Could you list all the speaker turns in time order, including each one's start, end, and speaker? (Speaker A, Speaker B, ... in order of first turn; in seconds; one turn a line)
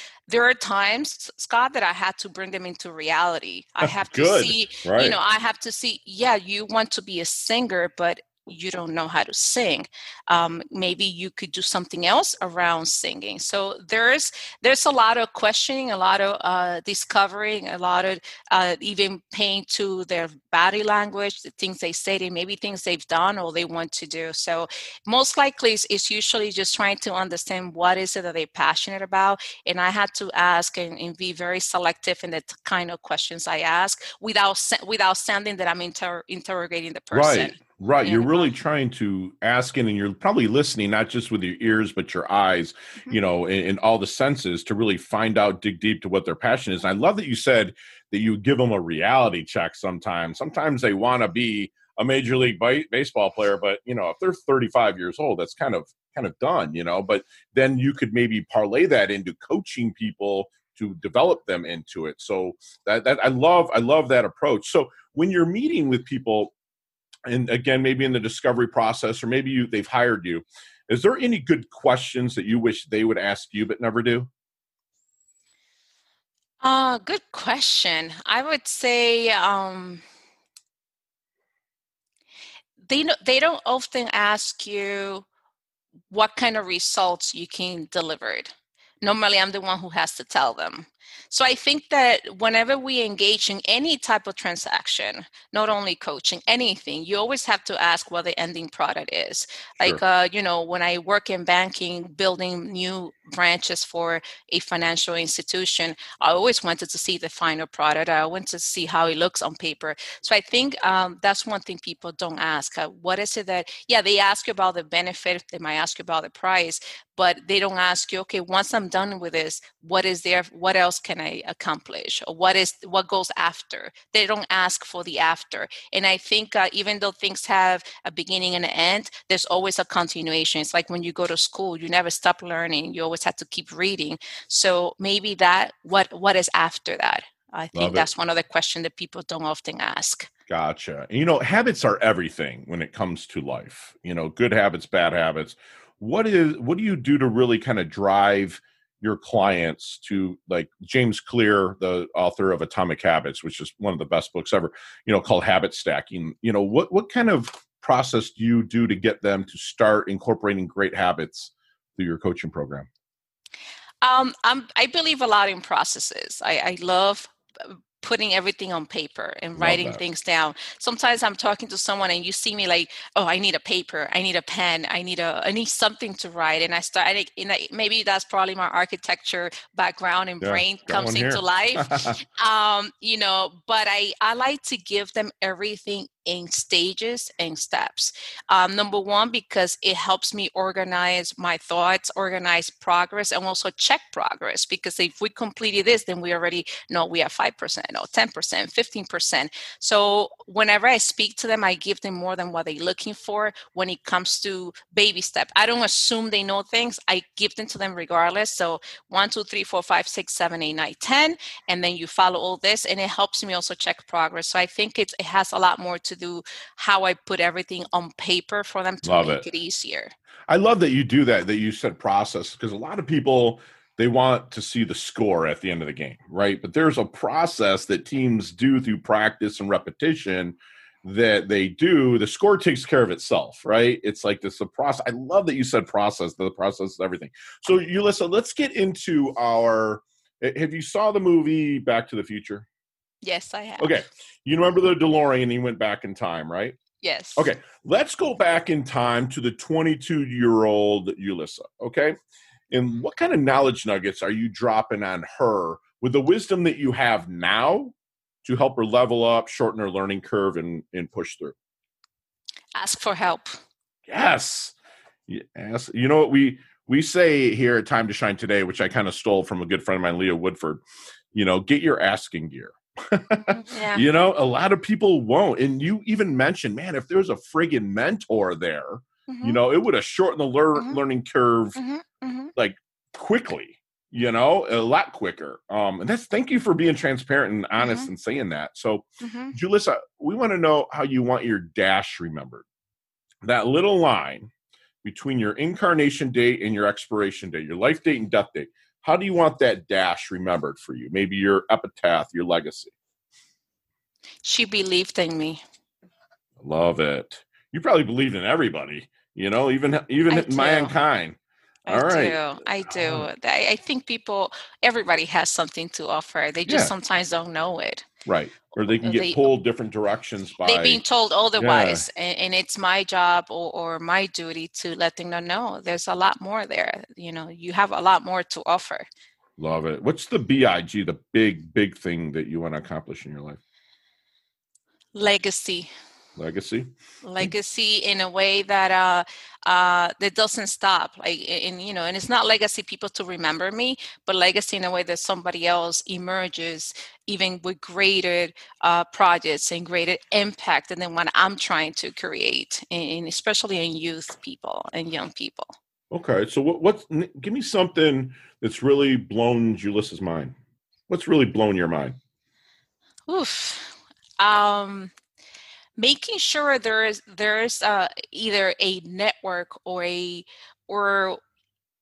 Speaker A: 0.3-38.5
Speaker B: 3.8-5.2
Speaker B: 37.1-66.5
Speaker B: 67.3-74.3
Speaker A: 76.6-80.0
Speaker A: 82.9-85.2
Speaker A: 86.1-140.3
Speaker B: 137.7-138.1
Speaker B: 140.5-162.9
Speaker A: 164.0-220.1
Speaker B: 169.6-170.0
Speaker B: 180.4-182.2
Speaker B: 219.0-219.4
Speaker B: 220.5-242.7
Speaker A: 243.2-243.9
Speaker B: 243.8-246.8
Speaker A: 247.0-247.5
Speaker B: 247.4-252.1
Speaker B: 252.7-261.5
Speaker A: 262.8-263.6
Speaker B: 264.1-264.7
Speaker B: 265.3-281.8
Speaker A: 273.4-274.0
Speaker A: 279.3-279.6
Speaker A: 281.8-282.5
Speaker B: 282.5-292.6
Speaker A: 287.8-288.1
Speaker A: 289.2-289.5
Speaker B: 293.4-294.5
Speaker B: 295.0-302.9
Speaker A: 304.4-305.6
Speaker B: 306.6-313.3
Speaker A: 310.3-310.9
Speaker A: 311.9-318.1
Speaker B: 316.7-316.9
Speaker B: 318.2-321.0
Speaker A: 318.9-319.5
Speaker A: 320.6-329.1
Speaker B: 321.6-322.1
Speaker B: 329.6-333.6
Speaker A: 335.1-335.9
Speaker B: 336.4-337.5
Speaker A: 337.2-355.7
Speaker B: 356.1-360.6
Speaker B: 361.1-362.2
Speaker A: 363.3-365.1
Speaker A: 366.0-371.4